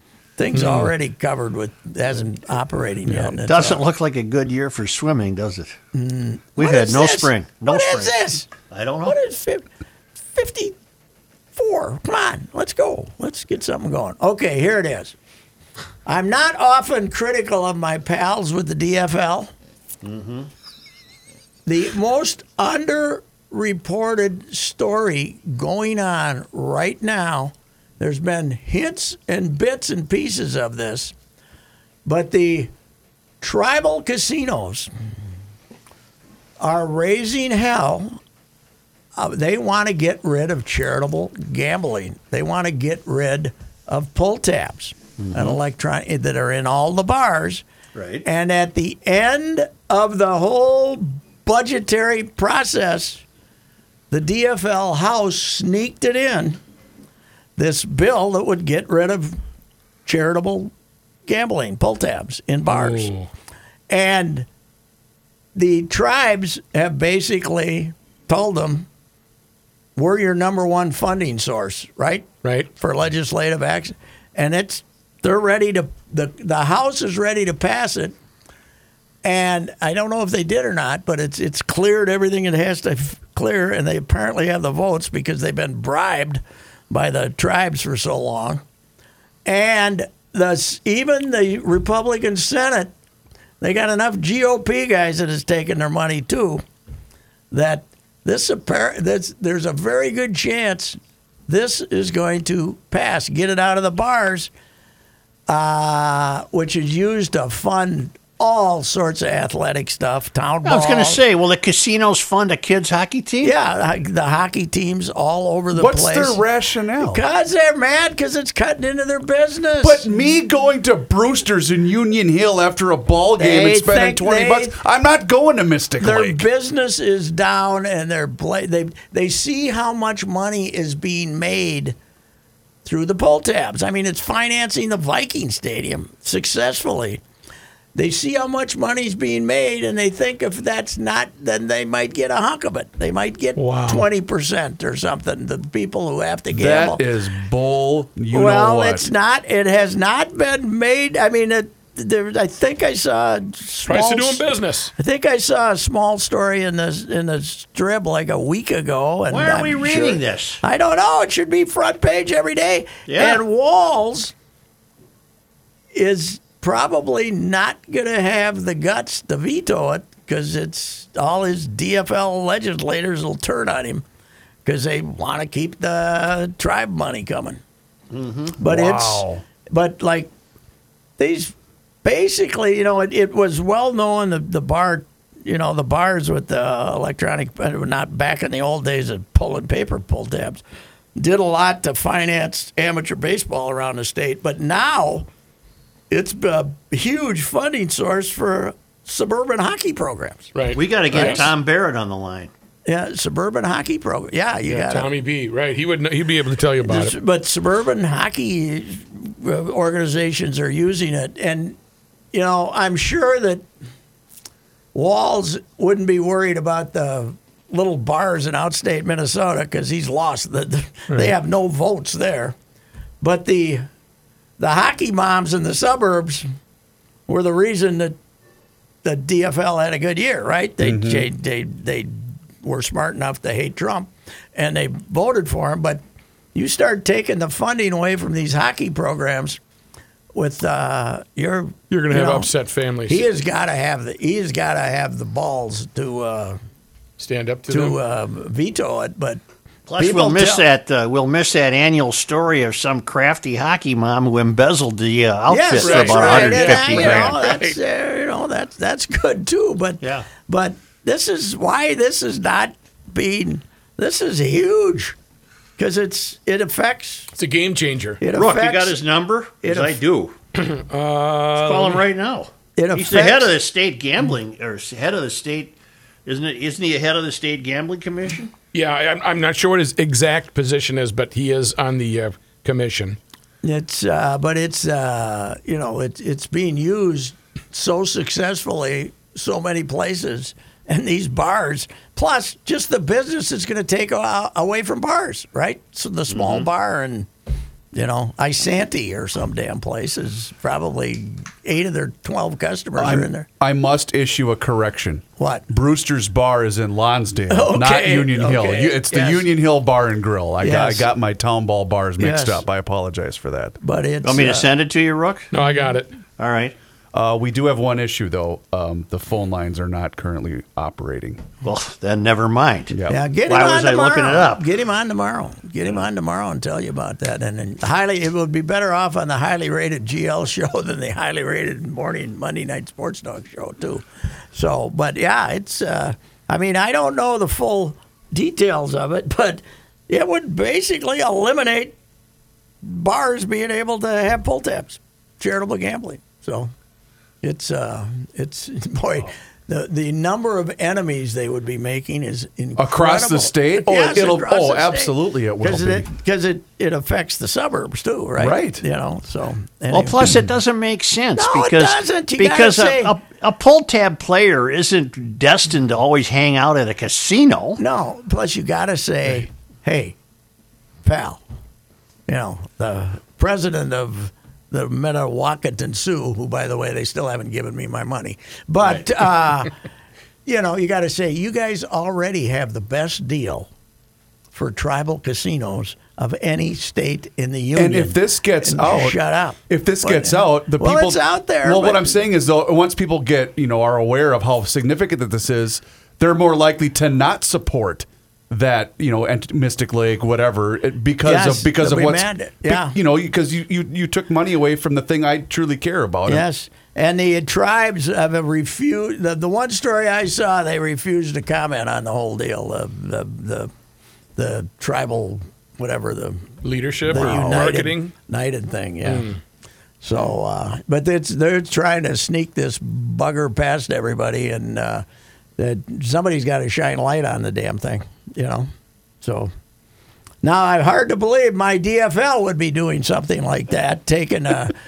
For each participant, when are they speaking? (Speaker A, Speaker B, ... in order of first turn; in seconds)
Speaker A: 0.4-3.8, 5.9-8.5, 9.1-9.7, 10.3-10.7, 11.6-15.1, 16.1-19.5, 21.6-31.1, 32.0-32.7, 33.4-34.9, 36.6-38.2, 39.1-47.6, 48.2-53.2, 54.1-56.6, 57.6-59.4, 60.0-60.7, 61.3-63.1, 63.9-64.5, 65.5-68.9, 70.0-78.2, 79.2-88.6, 89.4-92.9, 93.6-96.6, 97.5-104.5, 105.5-111.2, 113.4-116.4, 117.0-120.0, 123.4-124.8, 126.0-131.9, 132.8-137.2, 137.9-147.0, 148.3-164.3, 165.9-174.0, 174.6-177.6, 178.6-180.3, 181.2-190.6, 191.2-195.3, 196.1-200.5, 201.1-201.4, 202.8-205.1, 206.8-211.8, 212.3-213.6, 214.9-222.6, 223.2-223.9, 224.6-226.5, 227.3-228.2, 229.0-236.0, 236.5-239.6, 240.3-242.5, 243.1-246.6, 247.7-249.4, 250.0-250.6, 255.5-265.1, 265.8-267.3, 268.2-269.0, 269.6-270.0, 272.8-273.5, 283.6-297.3, 297.9-303.5, 305.4-305.6, 307.5-309.5, 310.6-311.1, 312.2-312.6, 313.8-314.7, 323.1-341.9, 342.8-346.7, 347.4-360.4, 361.4-363.1, 367.8-370.2, 371.0-371.4, 372.3-379.7, 380.4-383.7, 384.5-392.2, 401.2-402.9, 406.3-413.7, 414.4-416.5, 417.1-419.3, 420.0-425.0, 425.6-428.7, 429.2-429.5, 430.4-434.8
Speaker B: 0.5-0.9, 62.7-63.3, 143.6-144.1, 153.9-154.9, 200.5-201.5, 204.7-207.1, 241.9-243.2, 247.2-248.0, 255.8-257.8, 267.3-268.2, 270.5-272.0, 278.7-283.2, 315.5-316.1, 416.6-418.1, 419.0-419.4
Speaker C: 3.1-5.7, 6.6-8.1, 8.7-9.2, 20.0-20.5, 45.2-45.6, 47.9-48.2, 110.6-113.5, 159.3-160.6, 163.1-163.4, 178.1-178.6, 200.7-202.5, 249.9-257.4, 260.0-260.3, 268.3-270.3, 271.5-278.5, 296.3-296.7, 314.2-315.5, 316.4-316.7, 321.6-324.6, 359.9-367.8
Speaker D: 115.7-117.2, 119.8-126.4, 146.5-149.1, 178.6-179.4, 230.8-231.3, 303.0-313.8, 317.1-321.4, 322.9-323.2, 352.8-356.1, 358.4-358.8, 387.7-406.4